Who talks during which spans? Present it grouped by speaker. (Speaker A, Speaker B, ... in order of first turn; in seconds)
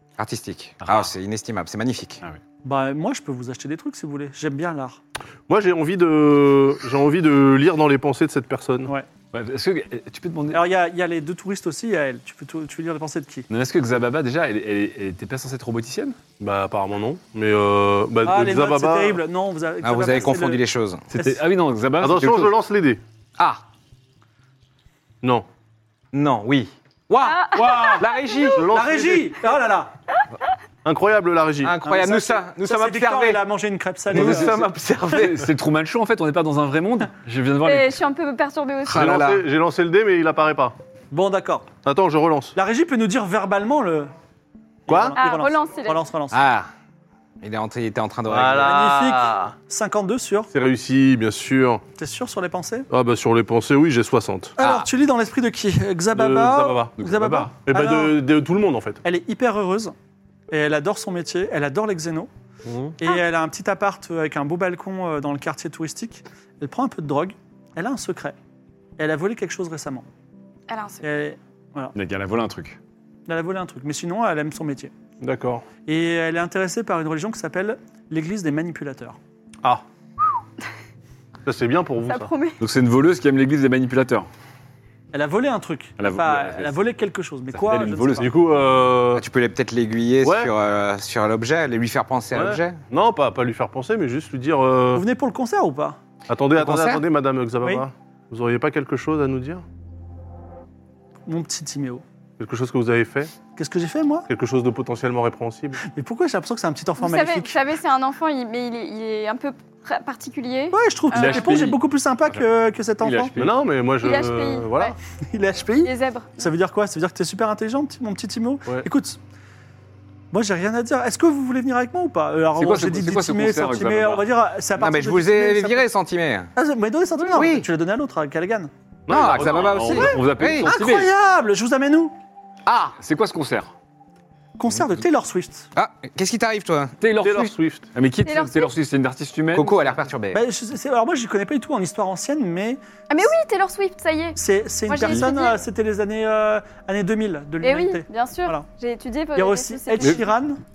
Speaker A: 0.2-2.2, 19.8-21.0, 26.1-28.7, 31.6-33.4, 34.1-35.4, 38.9-39.4, 46.3-46.7, 47.4-48.8, 54.6-54.9, 89.1-92.8, 96.6-97.0, 124.8-126.5, 127.3-127.7, 129.1-130.7, 132.7-132.9, 135.7-136.9, 139.5-140.4
Speaker B: 0.8-1.1, 9.3-10.6, 13.5-16.2, 21.1-22.5, 27.5-28.0, 34.1-38.0, 57.0-57.5, 71.9-72.8, 82.6-84.3, 86.0-86.8, 87.5-88.3, 111.1-112.4, 113.0-113.6, 122.5-124.3, 129.1-131.1, 133.0-133.7, 137.0-139.9
Speaker C: 2.6-5.0, 10.5-13.5, 18.2-20.6, 28.7-29.9, 31.8-34.6, 41.1-41.7, 42.5-44.1, 44.9-46.4, 48.6-50.5, 52.0-52.9, 54.6-58.2, 59.0-59.9, 60.5-62.3, 63.0-68.3, 69.0-70.0, 71.0-71.9, 73.3-74.9, 75.8-79.2, 85.1-88.3, 94.9-96.0, 101.3-102.0, 103.5-104.3, 105.9-107.5, 110.7-113.3, 115.3-119.2, 120.3-125.8, 126.5-128.7, 129.9-132.1, 134.6-135.7, 140.3-143.3, 144.3-148.7, 149.3-150.6
Speaker D: 5.5-8.9, 16.4-19.2, 22.0-23.0, 28.5-29.3, 30.8-31.7, 34.1-34.4, 38.9-40.7, 41.8-42.5, 44.9-45.2, 48.3-49.5, 50.5-51.8, 52.9-54.5, 56.1-56.9, 57.6-59.0, 62.6-63.0, 75.2-75.6, 81.4-82.3, 88.2-89.2, 90.2-90.5, 92.3-95.0, 96.3-99.6, 102.4-103.3, 104.3-105.8, 113.4-114.9, 129.1-129.9, 137.2-137.9
Speaker E: 27.2-28.1, 37.6-39.1, 45.1-46.0, 70.7-71.0, 82.0-82.6, 107.0-111.6, 114.0-114.9, 115.8-116.5, 138.2-138.7, 143.1-145.6, 147.6-150.2